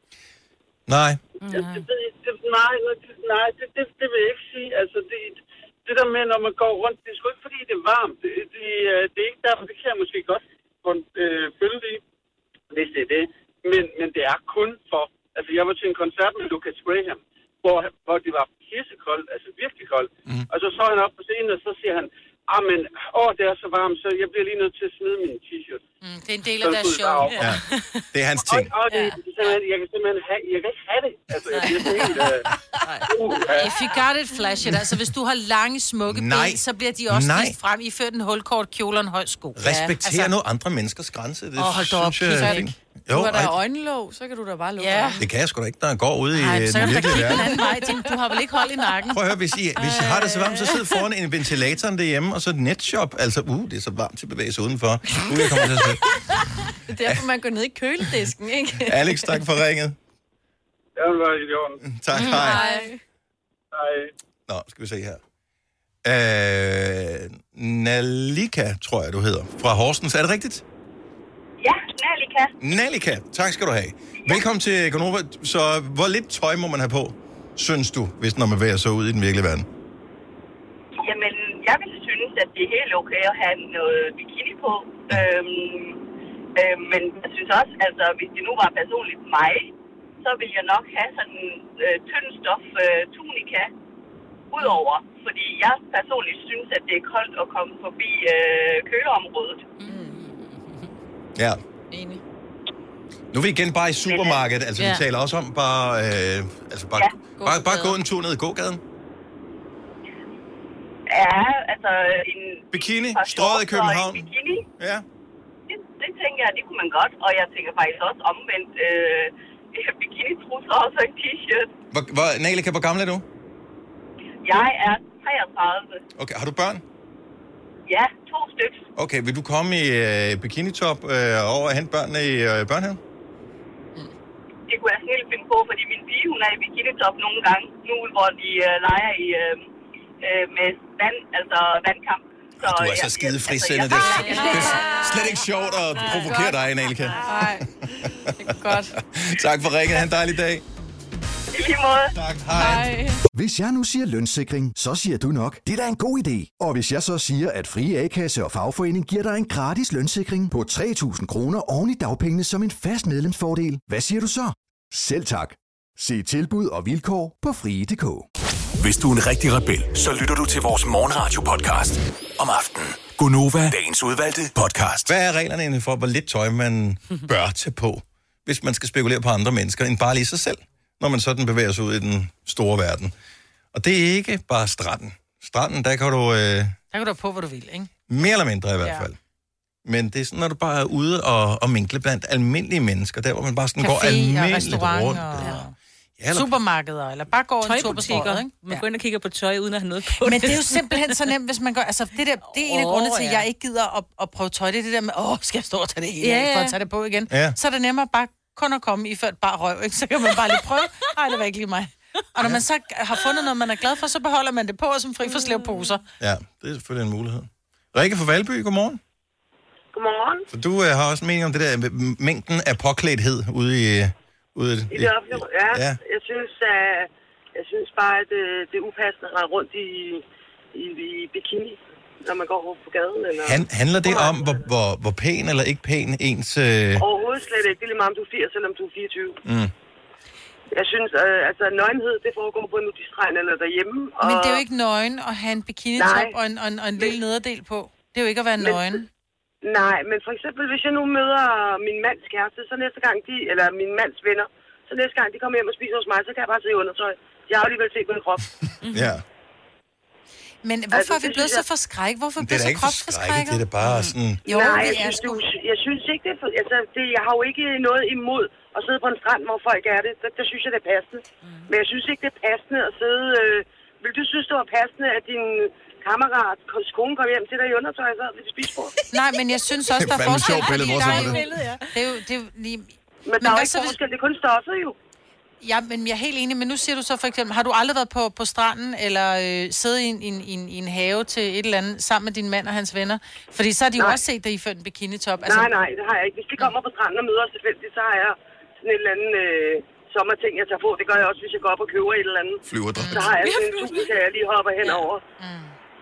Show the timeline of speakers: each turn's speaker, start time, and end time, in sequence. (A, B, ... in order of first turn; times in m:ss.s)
0:00.9-0:01.2 A
0:01.4-0:01.8 B
0:01.5-0:12.0 C
0:12.7-0:25.8 C
0:26.0-0:27.4 D
0:26.6-0:27.4 C
0:27.4-0:28.7 A
0:27.7-0:28.0 B
0:28.4-0:32.5 C
0:31.8-0:32.0 E
0:33.0-0:33.7 C
0:33.6-0:40.3 D
0:36.1-0:37.6 A
0:39.6-0:43.6 A
0:39.6-0:39.9 E
0:41.6-0:42.6 D
0:42.3-0:45.3 E
0:44.8-0:45.2 D
0:45.2-0:47.5 A
0:46.3-0:49.2 D
0:47.2-0:48.1 E
0:49.1-0:56.0 A
0:56.8-0:59.4 E
0:58.8-1:00.0 A
1:01.0-1:01.8 C
1:01.8-1:02.6 A
1:02.1-1:02.7 B
1:02.3-1:03.0 E
1:03.7-1:04.1 C
1:04.5-1:05.2 A
1:06.0-1:10.6 A
1:11.6-1:12.5 F
1:12.6-1:19.7 A
1:21.0-1:26.0 F
1:26.6-1:33.7 F
1:34.5-1:39.6 F
1:39.8-1:40.4 B
1:39.8-1:40.2 E
1:41.4-1:41.6 A
1:41.9-1:42.2 E
1:43.3-1:48.8 A
1:44.0-1:44.4 F
1:44.8-1:45.0 B
1:47.4-1:47.8 E
1:51.1-1:54.6 F
1:52.7-1:55.0 A
1:55.7-2:01.7 F
2:01.9-2:03.2 A
2:04.4-2:06.0 F
2:06.2-2:06.8 A
2:07.9-2:08.8 F
2:09.0-2:13.0 A
2:14.7-2:19.6 F
2:20.2-2:24.5 F
2:22.6-2:30.6 A
2:24.0-2:25.3 B
2:24.1-2:24.9 E
2:26.0-2:26.5 E
2:27.0-2:27.4 B
2:27.2-2:29.0 E
2:31.5-2:32.1 F
2:32.1-2:33.0 A
2:32.5-2:33.2 E
2:33.3-2:48.3 G
2:48.8-2:55.1 H
2:55.0-3:03.1 A
3:03.7-3:06.8 A
3:06.9-3:07.9 D
3:08.1-3:09.2 A
3:08.8-3:09.1 D
3:09.8-3:15.6 A
3:13.8-3:15.7 D
3:15.4-3:15.6 B
3:16.2-3:16.5 A
3:16.3-3:18.8 D
3:17.6-3:21.2 B
3:20.2-3:36.0 D
3:22.5-3:23.5 B
3:26.2-3:26.8 B
3:27.3-3:27.6 A
3:35.4-3:36.0 B
3:36.2-3:39.0 A
3:39.9-3:40.5 I
3:40.5-3:46.0 A
3:44.9-3:50.2 I
3:50.7-3:54.6 I
3:53.4-3:57.0 A
3:57.0-3:59.4 I
3:59.4-3:59.7 A
4:00.7-4:04.6 I
4:04.2-4:09.1 D
4:06.0-4:06.4 I
4:08.6-4:09.0 I
4:09.6-4:18.5 I
4:18.9-4:19.2 B
4:18.9-4:19.2 A
4:20.6-4:23.6 D
4:20.9-4:21.6 I
4:22.4-4:24.4 A
4:23.8-4:24.1 B
4:24.4-4:25.4 D
4:24.4-4:38.9 I
4:39.1-4:44.0 D
4:40.0-4:41.4 A
4:40.1-4:42.0 B
4:43.2-4:45.0 I
4:45.6-4:55.7 D
4:55.4-5:05.2 I
5:02.6-5:03.3 A
5:03.0-5:03.2 D
5:03.2-5:04.1 B
5:05.4-5:05.8 D